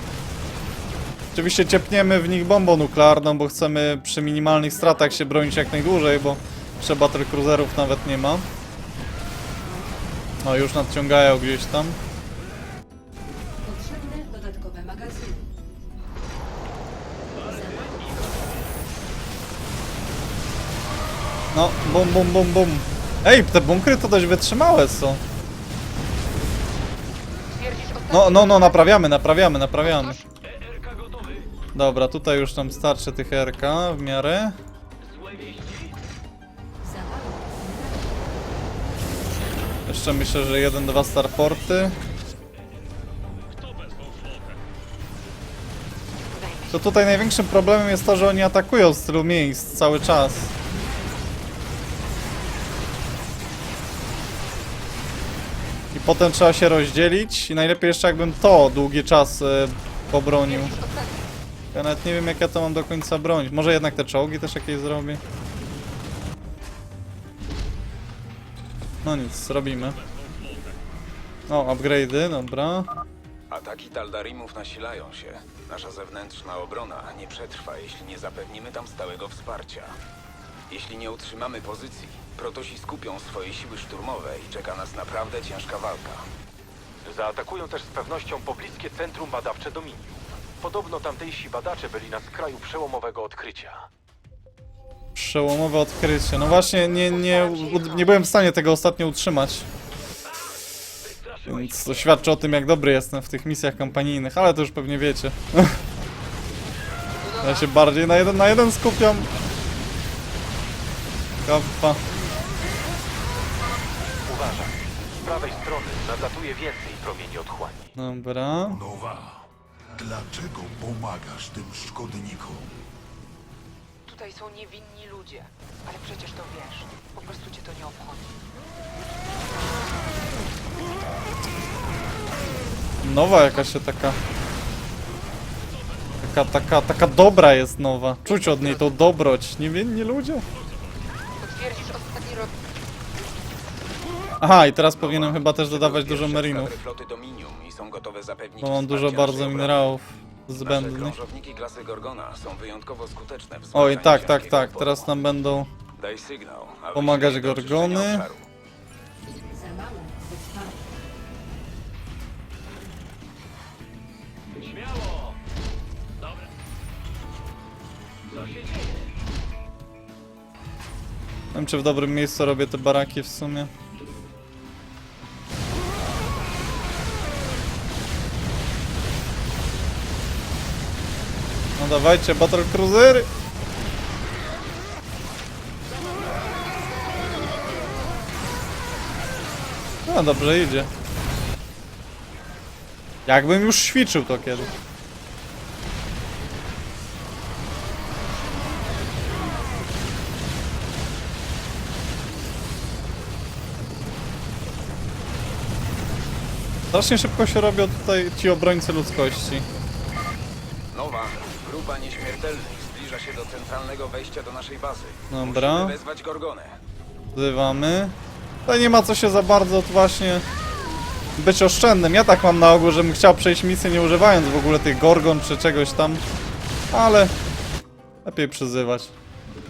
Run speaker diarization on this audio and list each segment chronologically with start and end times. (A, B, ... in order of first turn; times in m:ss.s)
0:01.3-0:08.5 A
0:09.6-0:10.1 B
0:10.4-0:12.0 A
0:13.6-0:15.5 B
0:17.4-0:18.4 B
0:21.5-0:25.2 A
0:27.5-0:29.2 C
0:28.1-0:30.2 A
0:29.8-0:30.2 C
0:30.4-0:31.5 D
0:31.8-0:34.6 A
0:35.0-0:35.9 D
0:36.8-0:38.4 B
0:39.9-0:42.0 A
0:46.3-0:47.1 C
0:46.7-0:50.5 A
0:50.6-0:51.3 B
0:55.9-1:00.7 A
1:00.4-1:01.3 C
1:01.7-1:05.2 A
1:09.0-1:10.0 A
1:11.5-1:12.9 A
1:13.5-1:20.0 E
1:20.7-1:26.3 E
1:27.0-1:33.9 D
1:35.2-1:39.7 A
1:36.8-1:38.3 C
1:41.0-1:42.1 D
1:41.5-1:45.8 A
1:47.2-1:47.8 C
1:47.4-1:49.3 A
1:51.4-1:52.0 A
1:54.3-1:57.9 D
1:58.0-1:58.8 A
1:58.7-2:02.7 F
2:04.0-2:08.4 C
2:13.0-2:14.2 A
2:16.2-2:20.4 A
2:18.2-2:19.0 C
2:21.4-2:22.5 C
2:24.4-2:26.8 A
2:24.9-2:29.9 E
2:28.6-2:31.2 A
2:30.6-2:35.1 E
2:33.7-2:35.7 A
2:36.0-2:38.5 E
2:36.9-2:38.3 A
2:39.5-2:41.0 B
2:44.6-2:45.3 D
2:48.4-2:48.8 D
2:51.5-2:53.7 A
3:01.8-3:03.3 A
3:10.1-3:10.9 A
3:13.3-3:14.7 A
3:26.9-3:29.7 A
3:30.9-3:36.8 E
3:35.3-3:36.0 A
3:37.4-3:38.2 A
3:38.7-3:40.4 A
3:41.4-3:46.2 A
3:46.9-3:47.3 A
3:48.2-3:49.1 A